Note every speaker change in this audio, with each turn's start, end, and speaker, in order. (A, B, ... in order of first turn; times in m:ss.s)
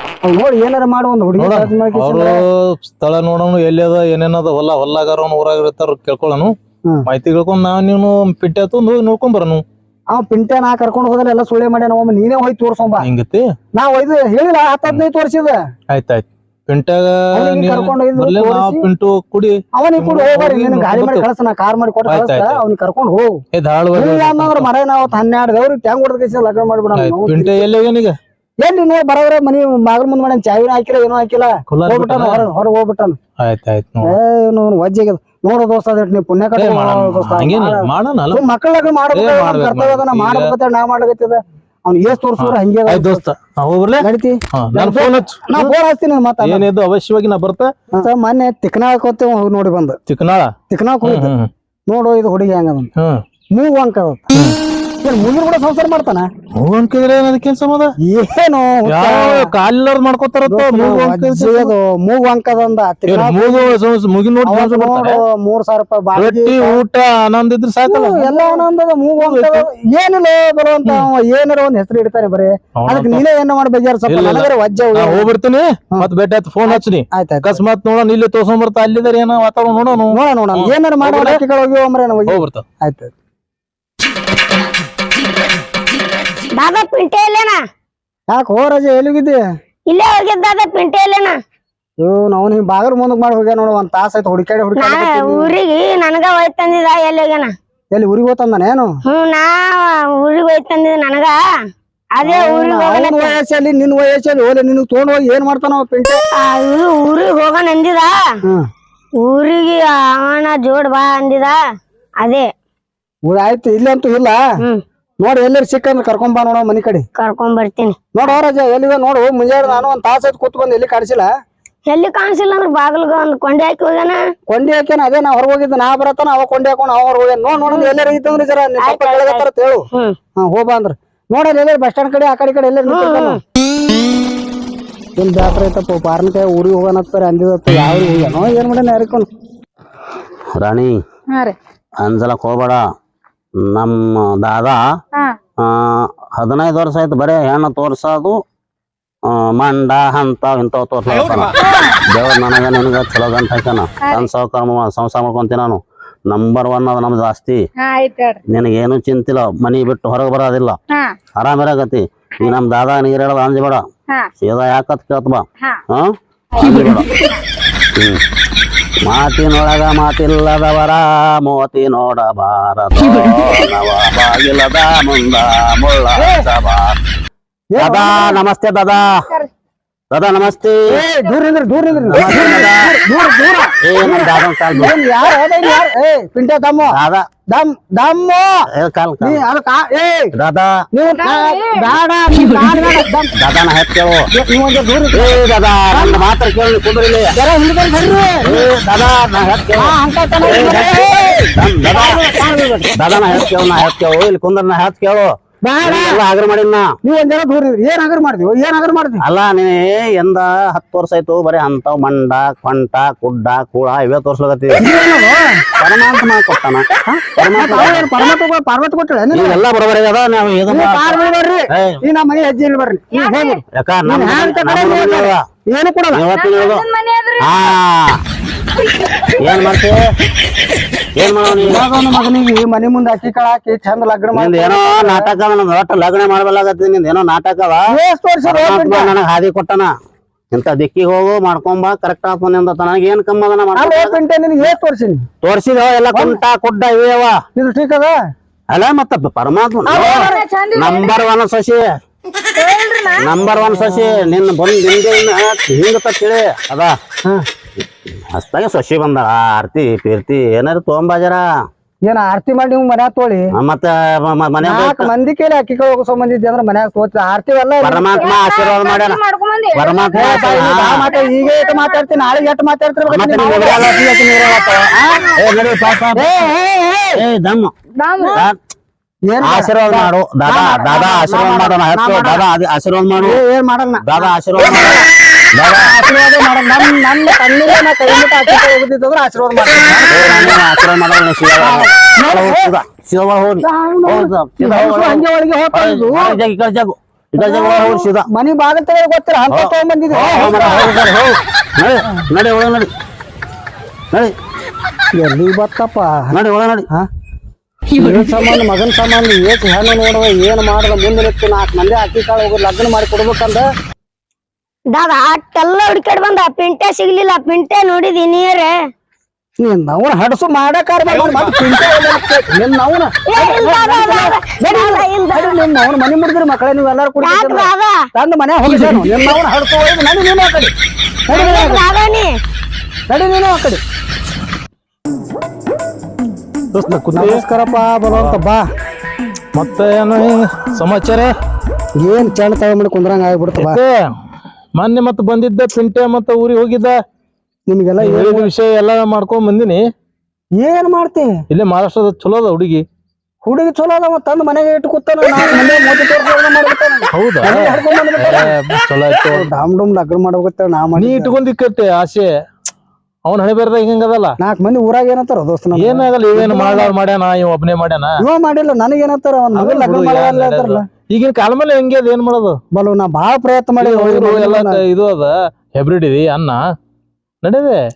0:00.2-0:02.4 A
0:01.4-0:06.6 B
0:07.1-0:09.6 B
0:10.1-0:13.1 A
0:13.0-0:13.4 B
0:13.7-0:15.6 A
0:15.9-0:21.3 B
0:17.4-0:18.9 A
0:19.8-0:23.4 A
0:22.1-0:22.6 B
0:23.5-0:24.7 B
0:23.9-0:27.6 A
0:27.0-0:28.2 B
0:28.6-0:33.2 A
0:31.7-0:32.5 B
0:33.4-0:34.2 B
0:34.0-0:43.2 A
0:36.6-0:38.4 B
0:39.1-0:40.5 B
0:42.4-0:45.7 B
0:44.0-0:46.7 A
0:46.4-0:47.7 B
0:47.9-0:50.0 A
0:50.1-0:50.5 B
0:50.7-0:51.3 A
0:51.0-0:51.5 B
0:51.9-0:52.9 A
0:53.6-0:54.2 A
0:55.0-0:56.3 A
0:56.6-0:57.9 B
0:58.0-0:59.5 A
0:58.9-1:01.7 B
1:00.5-1:03.7 A
1:03.1-1:05.2 B
1:04.4-1:06.8 A
1:06.2-1:08.6 B
1:07.8-1:15.3 A
1:09.2-1:09.7 B
1:12.8-1:13.2 B
1:14.1-1:21.4 B
1:16.7-1:17.6 A
1:20.1-1:23.1 A
1:22.3-1:22.6 B
1:26.5-1:27.6 C
1:28.3-1:29.4 A
1:29.9-1:31.4 C
1:32.0-1:35.6 A
1:34.8-1:37.5 C
1:37.9-1:38.9 A
1:39.1-1:41.4 C
1:42.1-1:43.4 C
1:42.2-1:46.2 A
1:46.3-1:48.2 C
1:49.2-1:51.6 C
1:52.2-1:52.5 C
1:53.3-1:54.4 A
1:55.2-1:57.1 A
1:57.2-1:58.0 C
1:58.2-2:01.3 A
2:01.9-2:04.2 C
2:04.5-2:09.9 A
2:08.8-2:09.4 C
2:10.4-2:13.4 A
2:12.9-2:13.4 C
2:15.2-2:19.3 A
2:20.6-2:21.0 D
2:21.3-2:21.6 E
2:22.0-2:22.8 D
2:23.6-2:24.8 D
2:25.6-2:28.4 D
2:29.2-2:31.6 D
2:31.6-2:32.0 E
2:32.1-2:37.6 D
2:34.0-2:34.3 E
2:37.8-2:38.4 E
2:38.5-2:40.8 D
2:40.9-2:41.2 E
2:41.4-2:43.9 D
2:44.4-2:47.1 D
2:48.0-2:48.2 D
2:49.0-2:57.0 D
2:56.2-2:56.5 A
2:57.7-2:58.4 A
2:57.8-2:59.3 D
3:00.1-3:01.0 D
3:00.9-3:06.9 A
3:02.1-3:02.9 D
3:03.8-3:04.9 D
3:06.9-3:07.3 D
3:07.5-3:08.5 A
3:08.8-3:09.4 D
3:09.2-3:10.3 A
3:10.3-3:10.8 D
3:10.9-3:13.3 A
3:11.2-3:11.9 E
3:13.4-3:14.2 D
3:14.4-3:16.2 A
3:15.1-3:17.3 D
3:17.3-3:18.7 A
3:18.4-3:22.2 D
3:19.7-3:23.5 A
3:23.0-3:26.9 D
3:25.6-3:26.2 A
3:27.0-3:29.2 A
3:29.2-3:34.8 D
3:34.8-3:35.7 A
3:35.8-3:36.9 D
3:37.0-3:39.6 A
3:37.4-3:38.2 D
3:39.3-3:41.2 D
3:40.7-3:46.2 A
3:41.7-3:42.0 D
3:43.1-3:43.6 E
3:43.7-3:45.4 D
3:46.1-3:48.2 D
3:46.3-3:47.8 E
3:49.0-3:49.4 E
3:49.4-3:50.0 D
3:51.2-3:51.9 D
3:51.4-3:55.3 A
3:54.3-3:57.9 D
3:57.9-3:59.1 A
3:58.4-3:59.9 D
4:00.5-4:04.2 D
4:03.8-4:05.3 A
4:05.4-4:07.4 D
4:06.1-4:06.4 A
4:07.6-4:08.2 A
4:08.7-4:12.0 D
4:09.9-4:10.4 A
4:09.9-4:11.2 E
4:12.6-4:13.3 E
4:13.2-4:17.0 D
4:13.4-4:14.3 A
4:18.3-4:21.4 D
4:22.0-4:23.5 A
4:23.6-4:25.1 D
4:24.6-4:28.3 A
4:27.8-4:29.2 D
4:28.2-4:32.4 E
4:29.7-4:31.2 D
4:30.1-4:34.0 A
4:33.1-4:36.3 D
4:33.4-4:33.9 E
4:34.9-4:35.4 A
4:36.1-4:37.2 A
4:37.2-4:37.7 D
4:38.0-4:38.4 E
4:39.3-4:42.4 A
4:39.4-4:43.4 D
4:43.2-4:45.1 A
4:44.0-4:45.0 D
4:45.6-4:45.9 D
4:45.7-4:50.6 A
4:50.0-4:58.3 D
4:51.6-4:52.7 A
4:53.6-4:56.4 A
4:57.4-5:00.9 A
4:59.5-5:02.9 D
5:05.1-5:06.4 A
5:06.3-5:06.9 D
5:07.9-5:13.7 A
5:14.9-5:18.8 C
5:19.6-5:30.7 A
5:23.3-5:25.6 C
5:27.2-5:28.0 C
5:31.3-5:31.8 A
5:31.3-5:32.3 C
5:33.1-5:33.8 A
5:36.7-5:37.4 B
5:37.1-5:38.6 A
5:39.6-5:41.3 B
5:42.0-5:43.8 A
5:43.6-5:43.9 B
5:44.8-5:47.0 B
5:47.7-5:48.5 A
5:48.0-5:49.8 B
5:50.6-5:51.3 A
5:51.5-5:52.8 B
5:53.4-5:58.5 A
5:57.1-5:59.5 B
5:59.2-6:01.4 A
6:01.0-6:02.3 B
6:03.3-6:04.4 B
6:04.4-6:06.9 A
6:05.8-6:08.2 B
6:08.2-6:10.8 A
6:09.5-6:12.6 B
6:12.7-6:14.8 A
6:13.8-6:16.6 B
6:17.4-6:17.8 B